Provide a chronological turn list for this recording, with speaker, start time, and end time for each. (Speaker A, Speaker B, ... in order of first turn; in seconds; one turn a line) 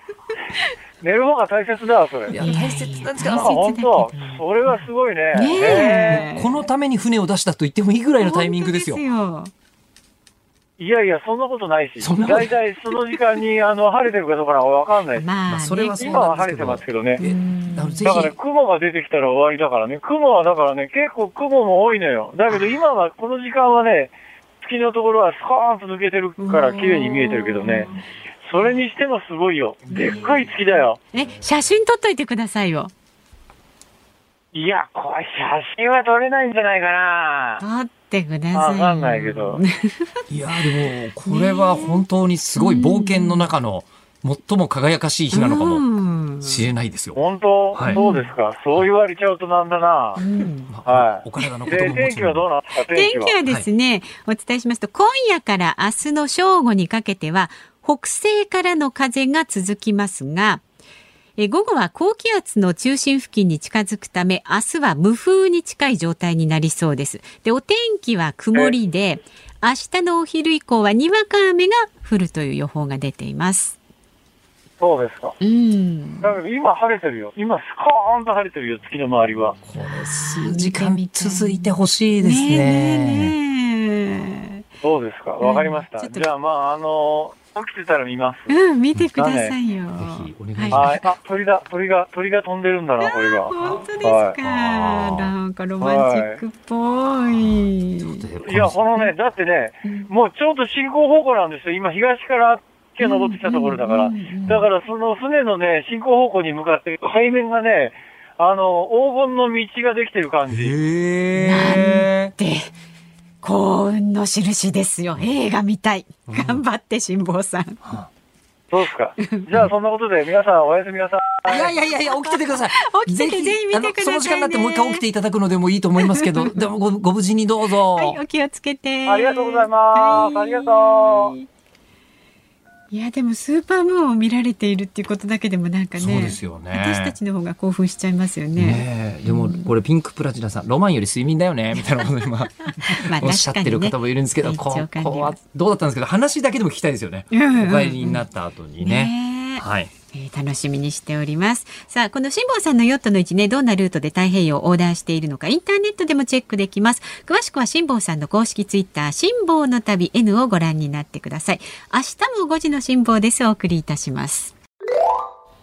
Speaker A: 1.0-2.4
Speaker B: 2.3-3.6
Speaker C: 2.4-6.6
Speaker A: 3.4-6.1
Speaker B: 5.5-9.0
Speaker C: 8.2-9.5
Speaker A: 10.8-15.3
Speaker B: 12.0-13.0
Speaker C: 15.1-16.3
Speaker B: 15.5-18.4
Speaker A: 16.0-17.2
Speaker C: 17.2-18.2
Speaker A: 18.1-27.9
Speaker C: 26.4-28.0
Speaker A: 28.5-31.0
Speaker C: 29.9-30.4
Speaker C: 31.1-32.9
Speaker A: 34.5-37.6
Speaker C: 37.6-42.0
Speaker A: 38.5-39.6
Speaker B: 40.3-45.9
Speaker C: 42.6-43.5
Speaker C: 45.3-46.7
Speaker B: 46.4-47.2
Speaker A: 47.1-50.2
Speaker B: 47.8-48.0
Speaker C: 47.9-48.3
Speaker C: 50.2-50.7
Speaker B: 50.6-52.5
Speaker A: 50.9-53.4
Speaker C: 52.9-60.6
Speaker C: 61.4-73.8
Speaker A: 74.8-75.3
Speaker C: 75.4-76.4
Speaker A: 76.2-79.6
Speaker B: 79.7-83.3
Speaker C: 80.1-81.6
Speaker C: 82.2-84.6
Speaker A: 84.8-88.6
Speaker C: 85.4-86.3
Speaker C: 88.5-91.1
Speaker A: 89.2-89.5
Speaker B: 89.9-91.0
Speaker A: 90.7-94.4
Speaker C: 93.0-98.2
Speaker B: 94.4-95.3
Speaker A: 95.8-96.4
Speaker B: 98.0-98.8
Speaker A: 98.5-110.7
Speaker C: 103.0-104.7
Speaker B: 110.5-112.3
Speaker C: 111.4-112.7
Speaker C: 113.4-117.8
Speaker B: 116.3-116.6
Speaker A: 118.7-121.7
Speaker C: 119.2-119.7
Speaker B: 121.4-128.2
Speaker C: 122.0-125.0
Speaker C: 126.0-126.6
Speaker C: 127.9-131.5
Speaker A: 129.1-131.3
Speaker C: 132.9-139.7
Speaker B: 136.0-137.2
Speaker B: 138.6-149.9
Speaker C: 143.1-145.4
Speaker C: 147.3-148.2
Speaker C: 148.8-164.5